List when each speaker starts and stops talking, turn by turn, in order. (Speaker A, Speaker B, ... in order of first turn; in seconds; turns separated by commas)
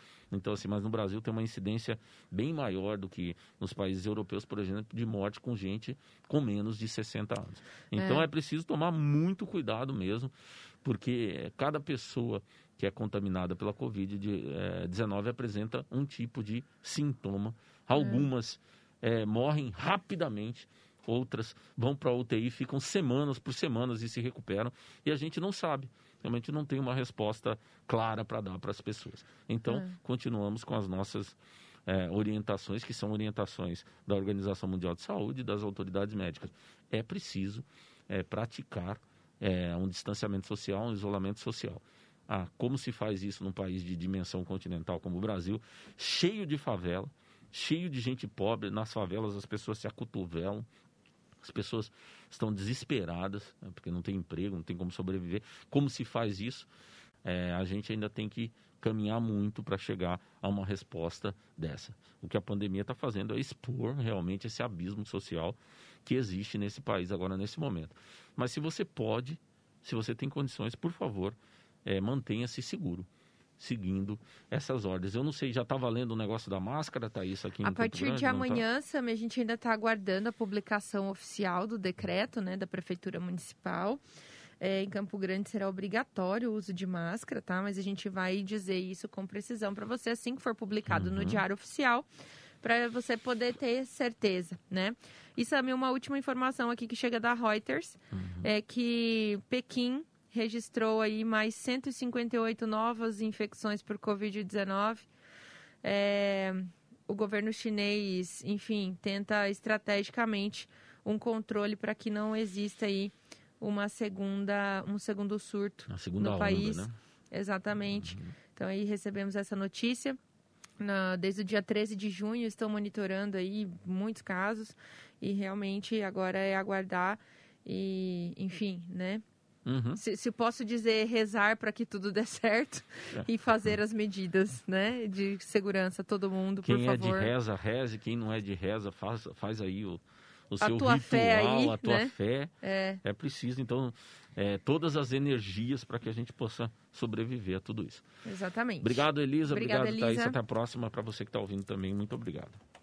Speaker A: 0.3-10.3, Speaker B: 8.0-8.3, Speaker A: 10.8-50.7, Speaker B: 17.9-18.3, Speaker B: 29.7-29.9, Speaker A: 51.4-56.7, Speaker A: 57.2-73.1, Speaker A: 73.6-78.7, Speaker B: 77.6-84.0, Speaker B: 84.6-92.1, Speaker A: 90.9-91.4, Speaker B: 92.6-105.1, Speaker A: 98.1-98.5, Speaker B: 105.8-120.2, Speaker A: 115.9-116.9, Speaker A: 117.9-118.3, Speaker B: 120.8-129.2, Speaker A: 129.7-130.0, Speaker B: 130.0-137.3, Speaker A: 133.2-133.7, Speaker A: 136.6-148.0, Speaker B: 140.6-143.0, Speaker B: 148.2-150.4, Speaker A: 148.8-152.6